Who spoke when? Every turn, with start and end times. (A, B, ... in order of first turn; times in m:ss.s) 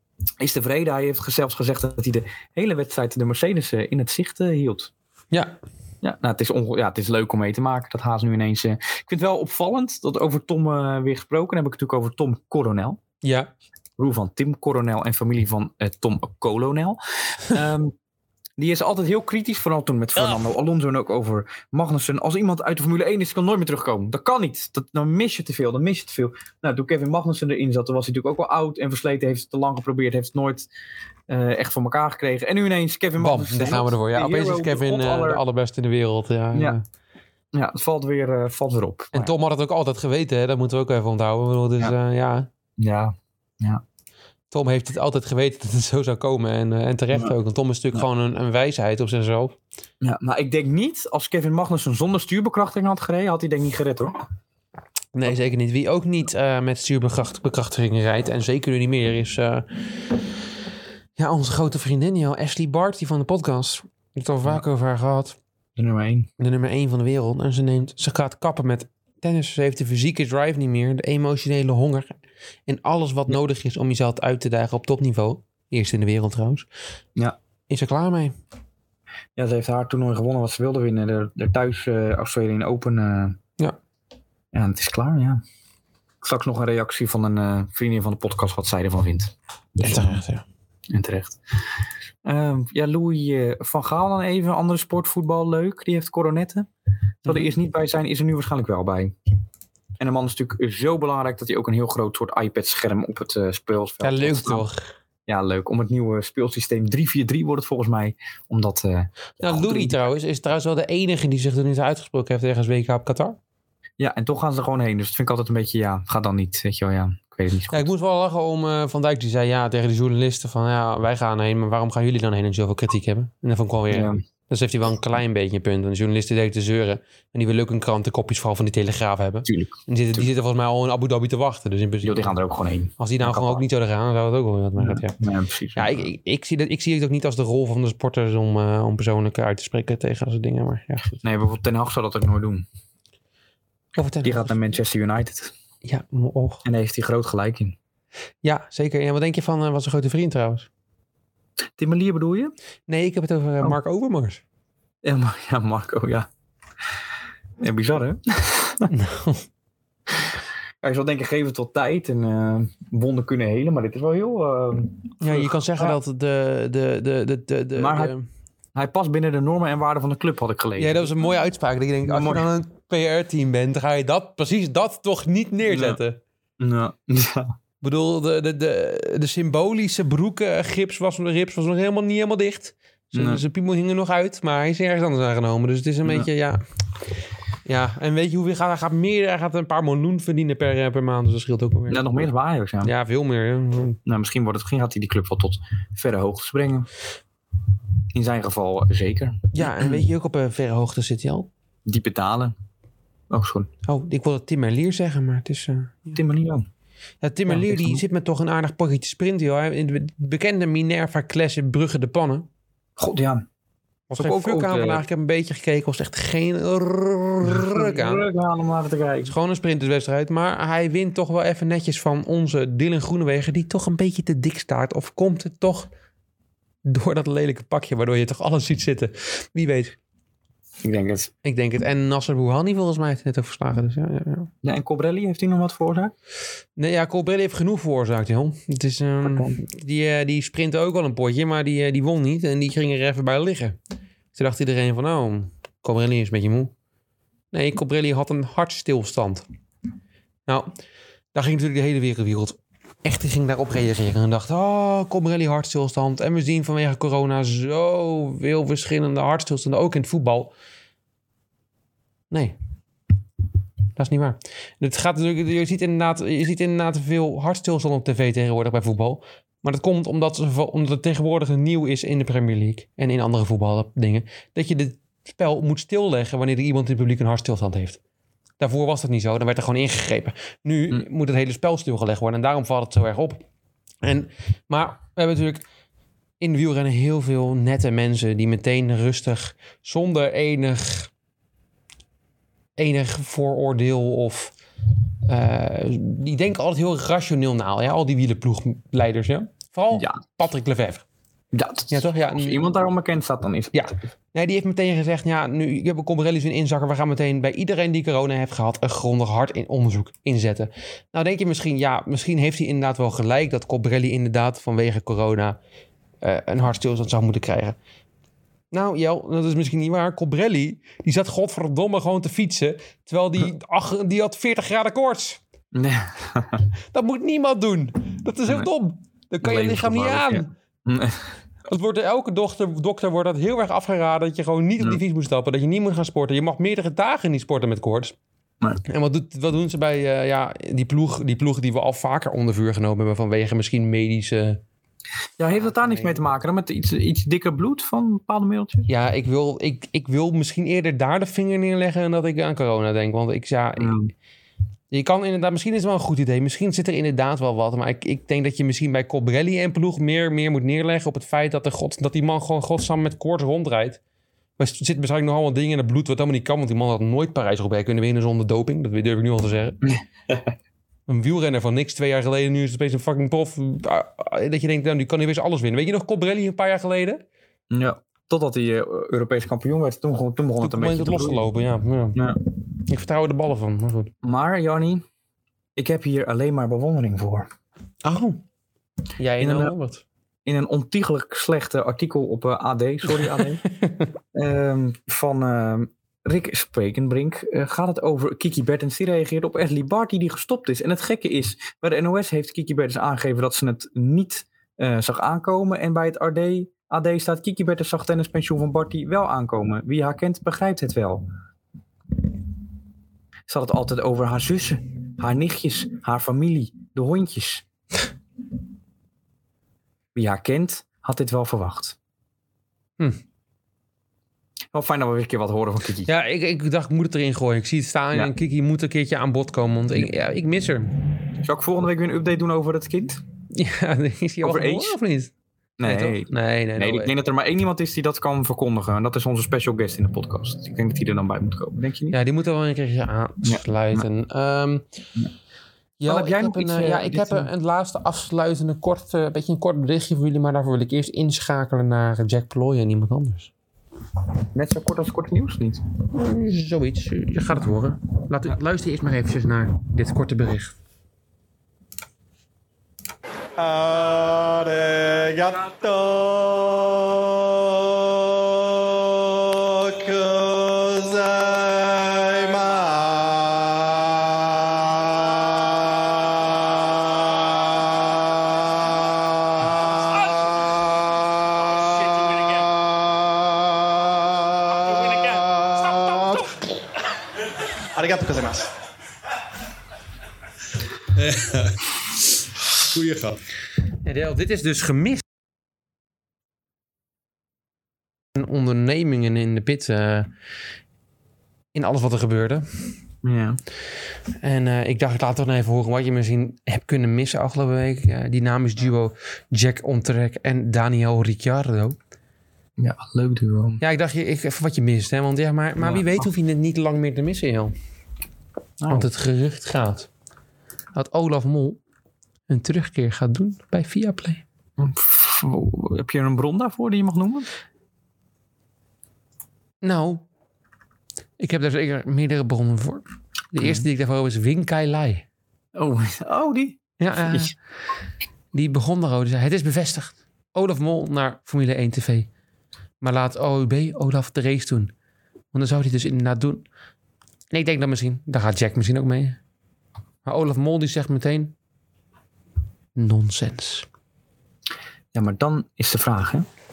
0:00.4-0:04.9 A
0:06.0-0:13.0 A
0:13.2-0:13.5 B
0:14.0-0:17.9 A
0:18.6-0:30.7 A
0:31.3-0:35.4 A
0:33.2-0:36.8 B
0:37.5-0:39.3 A
0:39.1-0:42.5 B
0:42.8-0:43.8 A
0:44.5-0:49.6 B
0:50.0-0:54.2 A
0:55.1-1:00.2 B
1:01.2-1:05.4 B
1:05.8-1:06.3 A
1:06.4-1:16.7 B
1:17.7-1:18.3 B
1:19.4-1:23.4 A
1:24.5-1:25.4 A
1:26.2-1:30.2 A
1:29.8-1:30.4 B
1:30.9-1:31.4 A
1:32.2-1:36.7 A
1:37.2-1:39.1 A
1:40.0-1:44.6 A
1:44.0-1:44.9 B
1:45.3-1:50.0 A
1:49.4-1:53.4 B
1:54.0-1:57.9 A
1:57.7-2:12.4 B
2:03.9-2:04.2 A
2:09.4-2:10.3 A
2:12.0-2:13.6 A
2:13.0-2:15.2 B
2:14.8-2:16.1 A
2:15.8-2:21.2 B
2:21.2-2:22.6 A
2:24.0-2:24.5 B
2:24.2-2:25.5 A
2:25.8-2:26.6 B
2:26.6-2:27.8 A
2:28.4-2:30.7 B
2:31.8-2:32.5 A
2:32.9-2:34.4 B
2:35.0-2:36.3 A
2:37.6-2:38.9 A
2:38.9-2:39.4 B
2:40.8-2:46.0 A
2:45.2-2:48.3 B
2:47.8-2:48.1 A
2:48.8-2:51.1 A
2:50.8-2:56.2 B
2:52.0-2:52.5 A
2:55.7-2:56.0 A
2:56.6-2:57.5 A
2:57.8-3:06.6 B
3:03.1-3:03.4 A
3:07.6-3:12.2 B
3:11.9-3:12.9 A
3:12.8-3:14.0 B
3:14.1-3:16.9 A
3:18.1-3:20.0 A
3:19.5-3:21.5 B
3:21.9-3:22.6 A
3:23.3-3:23.7 A
3:23.9-3:26.2 B
3:26.1-3:26.7 A
3:27.2-3:32.4 B
3:27.5-3:28.0 A
3:33.0-3:33.4 A
3:34.1-3:38.2 B
3:34.2-3:35.0 A
3:37.4-3:39.3 A
3:39.2-3:45.9 B
3:46.8-3:50.0 B
3:50.8-3:51.3 A
3:51.4-3:54.5 B
3:54.6-3:56.1 A
3:56.8-4:03.8 B
3:59.2-3:59.6 A
4:04.3-4:06.7 B
4:07.5-4:09.4 B
4:11.3-4:20.5 B
4:22.3-4:22.6 B
4:24.0-4:38.0 B
4:38.6-4:43.4 B
4:44.0-4:45.6 B
4:46.4-4:51.1 B
4:52.8-4:54.6 B
4:55.3-5:01.0 B
4:59.9-5:00.2 A
5:01.5-5:03.8 A
5:01.9-5:02.6 B
5:03.7-5:15.6 B
5:16.2-5:17.8 B
5:18.7-5:25.4 B
5:25.7-5:26.6 A
5:26.9-5:30.5 B
5:29.4-5:31.4 A
5:31.7-5:38.2 B
5:38.9-5:44.6 B
5:45.4-5:48.9 A
5:45.6-5:46.3 B
5:48.9-5:54.0 B
5:53.8-5:54.1 A
5:54.9-6:04.0 B
6:04.6-6:09.8 B
6:09.9-6:10.5 A
6:11.1-6:17.2 B
6:17.7-6:21.4 A
6:20.6-6:22.2 B
6:22.8-6:24.1 B
6:24.2-6:25.0 A
6:25.8-6:27.5 A
6:28.0-6:28.4 B
6:29.2-6:30.0 B
6:29.4-6:29.7 A
6:30.4-6:33.6 A
6:33.2-6:34.1 B
6:34.3-6:51.3 A
6:53.5-6:57.6 A
7:00.1-7:02.0 A
7:04.7-7:06.1 A
7:06.1-7:10.9 B
7:11.4-7:13.2 A
7:13.5-7:15.3 B
7:14.4-7:15.0 A
7:15.8-7:22.2 A
7:15.8-7:17.1 B
7:22.1-7:24.8 B
7:23.4-7:24.0 A
7:26.0-7:33.5 B
7:26.1-7:27.5 A
7:34.5-7:35.8 A
7:36.1-7:40.8 B
7:43.6-7:55.3 C
7:59.6-8:00.3 C
8:01.7-8:02.7 C
8:04.1-8:06.6 C
8:07.9-8:08.7 C
8:11.4-8:11.7 B
8:12.9-8:13.4 B
8:13.9-8:15.2 B
8:18.4-8:20.3 B
8:21.7-8:22.6 B
8:23.2-8:23.6 A
8:24.4-8:32.0 B
8:32.8-8:33.8 A
8:33.8-8:37.7 B
8:35.8-8:36.3 A
8:38.8-8:39.1 A
8:38.9-8:40.1 B
8:40.9-8:41.8 B
8:42.5-8:44.4 B
8:44.8-8:47.5 A
8:49.8-8:50.2 B
8:51.4-8:55.2 B
8:53.6-8:53.9 A
8:55.8-8:57.5 A
8:57.0-8:57.5 B
8:58.5-9:02.3 B
9:03.0-9:04.9 B
9:05.5-9:06.6 B
9:07.5-9:09.4 B
9:10.2-9:11.6 B
9:13.0-9:13.9 B
9:15.1-9:16.5 A